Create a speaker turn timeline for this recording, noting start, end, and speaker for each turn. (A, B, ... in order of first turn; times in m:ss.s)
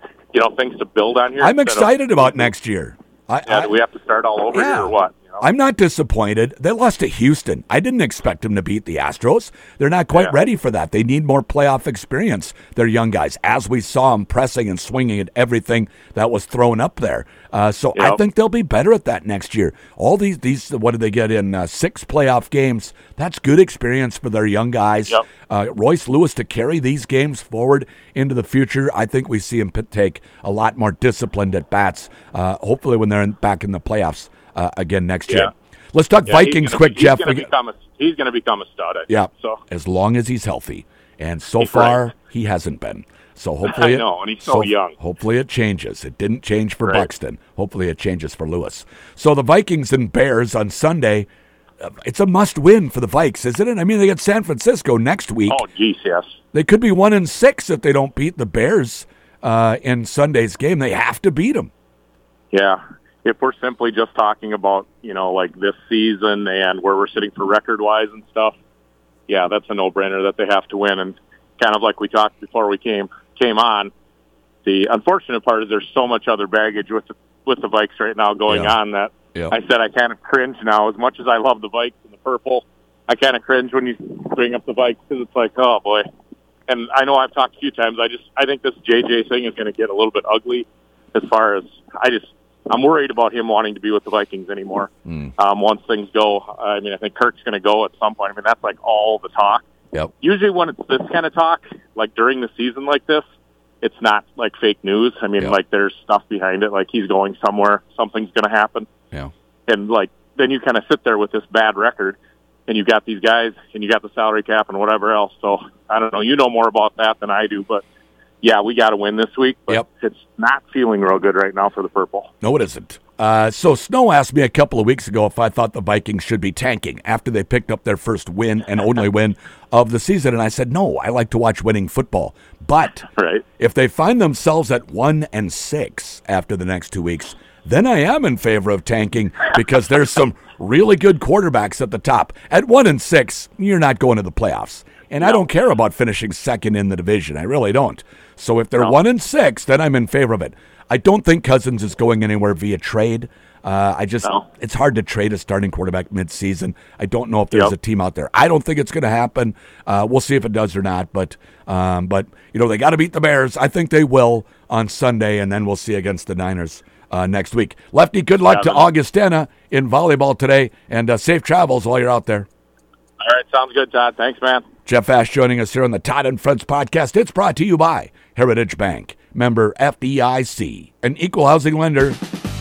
0:00.3-0:02.5 A
0:01.4-0:03.7 B
0:03.5-0:05.4 A
0:04.5-0:37.5 B
0:36.2-0:39.6 A
0:39.1-0:51.3 B
0:41.6-0:42.0 A
0:43.7-0:45.0 A
0:51.8-0:55.6 B
0:55.5-0:56.3 A
0:56.5-1:01.7 B
1:02.5-1:08.6 A
1:09.3-1:13.9 A
1:14.6-1:26.0 A
1:18.5-1:18.8 B
1:26.7-1:39.6 A
1:35.1-1:35.3 B
1:40.2-1:43.2 A
1:43.8-1:48.9 A
1:49.7-1:57.8 A
1:58.4-2:02.3 A
2:02.4-2:13.1 B
2:13.1-2:13.4 A
2:13.6-2:52.5 B
2:48.5-2:48.9 A
2:53.2-2:54.6 A
2:54.9-3:02.2 B